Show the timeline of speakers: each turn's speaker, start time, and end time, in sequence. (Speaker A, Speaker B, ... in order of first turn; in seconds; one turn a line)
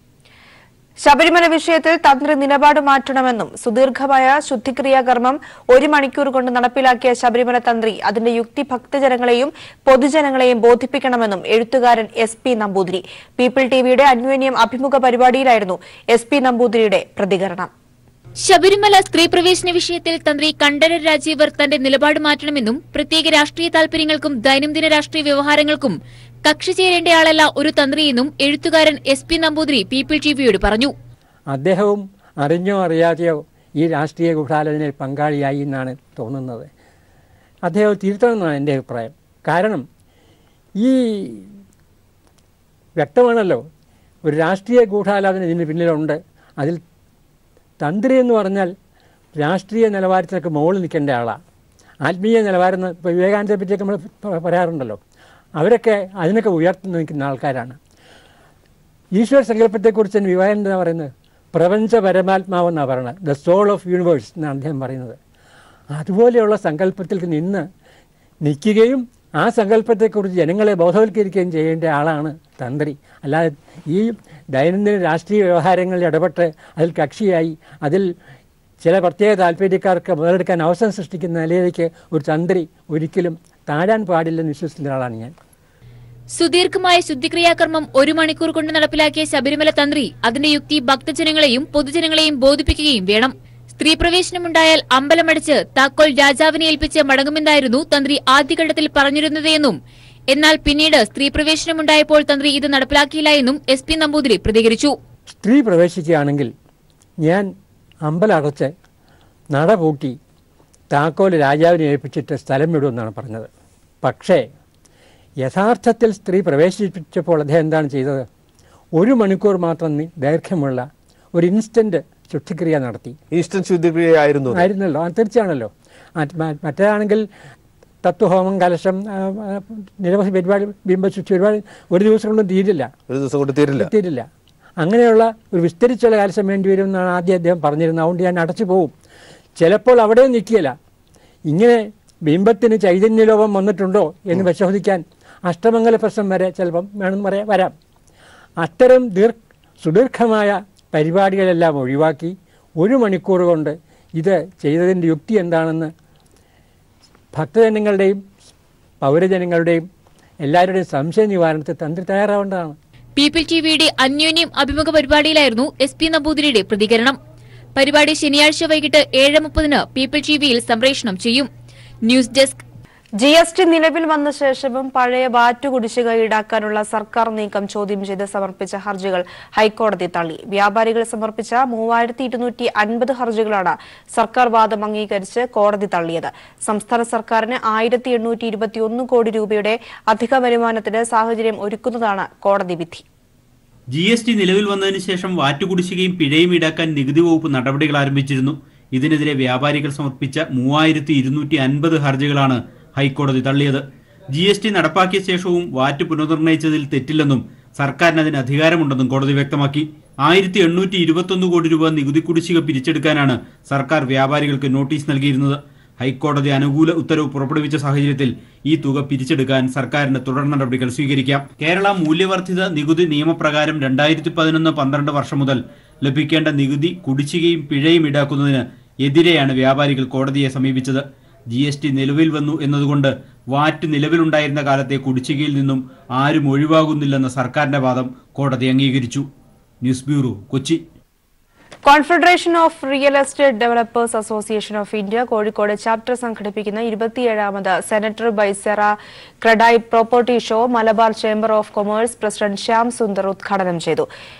Speaker A: 1.0-17.7
Speaker B: 18.4-30.9
Speaker C: 31.5-36.7
Speaker C: 37.6-39.9
Speaker C: 40.8-41.5
Speaker C: 43.0-43.6
Speaker C: 44.2-46.8
Speaker C: 47.8-48.7
Speaker C: 49.4-51.4
Speaker C: 52.0-55.0
Speaker C: 55.6-57.8
Speaker C: 59.2-65.2
Speaker C: 65.9-67.7
Speaker C: 68.4-78.1
Speaker C: 78.8-85.3
Speaker B: 86.3-99.8
Speaker B: 100.3-104.9
Speaker C: 105.3-106.5
Speaker C: 107.2-107.5
Speaker C: 108.0-108.7
Speaker C: 109.5-110.2
Speaker C: 110.9-113.5
Speaker C: 114.0-114.4
Speaker C: 115.4-118.3
Speaker C: 118.9-123.2
Speaker D: 123.3-124.7
Speaker C: 124.6-127.2
Speaker C: 128.0-132.9
Speaker D: 133.1-133.9
Speaker C: 133.8-134.3
Speaker C: 134.8-138.9
Speaker C: 139.6-140.7
Speaker C: 141.5-147.7
Speaker C: 148.6-155.9
Speaker C: 157.3-158.2
Speaker C: 159.0-159.8
Speaker C: 160.4-162.8
Speaker B: 163.2-167.2
Speaker B: 167.8-171.5
Speaker B: 172.0-172.6
Speaker A: 173.2-193.0
Speaker E: 193.9-239.2
Speaker E: 239.8-240.8
Speaker A: 241.8-254.1